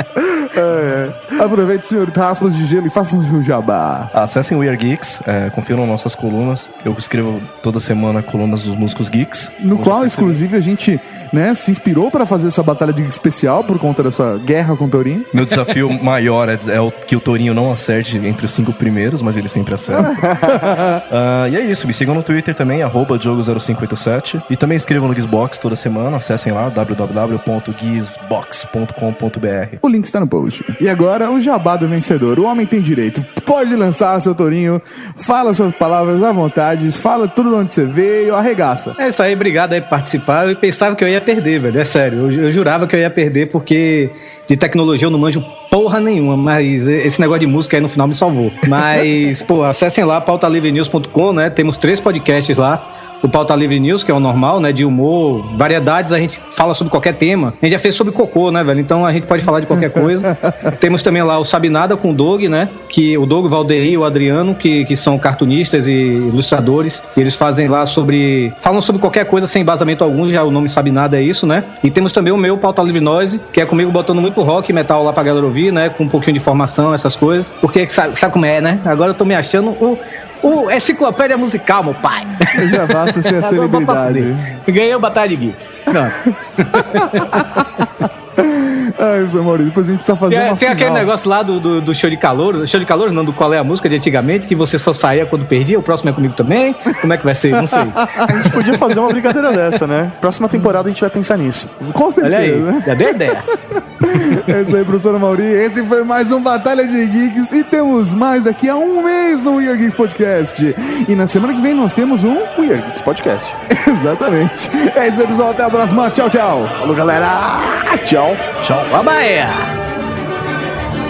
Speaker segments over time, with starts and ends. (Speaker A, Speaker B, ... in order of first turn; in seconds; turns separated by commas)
Speaker A: 0.2-1.3, Speaker B: 1.3-4.1, Speaker C: 4.1-10.4, Speaker B: 9.6-15.3, Speaker C: 15.3-29.8, Speaker B: 20.5-21.0, Speaker B: 29.8-39.0, Speaker D: 39.0-87.6, Speaker B: 60.1-60.7, Speaker B: 82.5-84.6, Speaker B: 86.8-91.1, Speaker D: 90.3-98.2, Speaker B: 97.7-98.4, Speaker A: 98.2-101.8, Speaker B: 101.8-112.5, Speaker D: 102.2-103.5, Speaker A: 112.5-113.6, Speaker B: 113.7-116.8, Speaker A: 116.8-118.7, Speaker D: 118.9-119.7